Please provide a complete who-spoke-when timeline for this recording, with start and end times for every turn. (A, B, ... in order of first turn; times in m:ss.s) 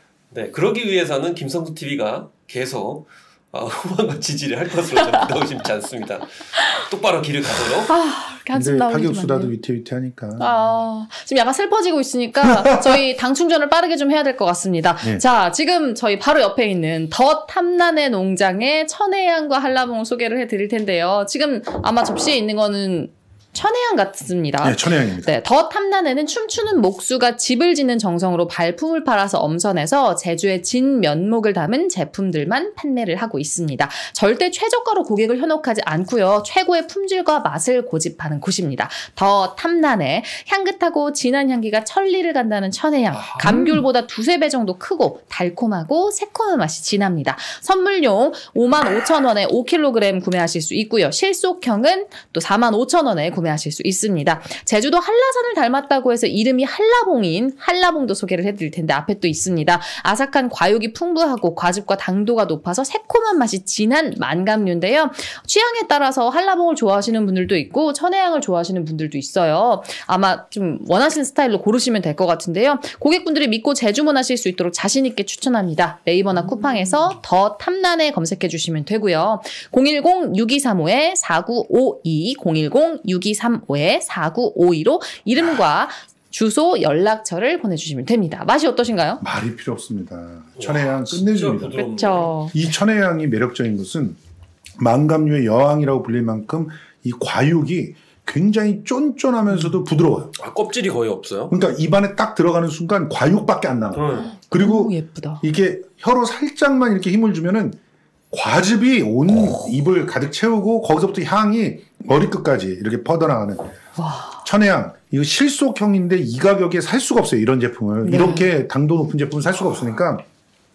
0:00.3-0:07.9 A
0:07.9-0:09.5 B
0:08.5-0:10.5 C
0:10.4-1:29.2 B
0:24.6-0:25.4 C
0:43.1-0:43.8 A
1:29.2-1:31.8 C
1:30.6-1:32.4 A
1:31.8-1:32.5 B
1:32.5-1:34.2 C
1:34.8-1:40.3 C
1:40.4-1:41.6 A
1:41.5-1:47.8 C
1:43.9-1:44.3 A
1:44.5-1:45.4 B
1:48.3-1:53.7 C
1:54.0-1:54.4 B
1:54.4-2:00.2 C
1:58.0-1:58.5 B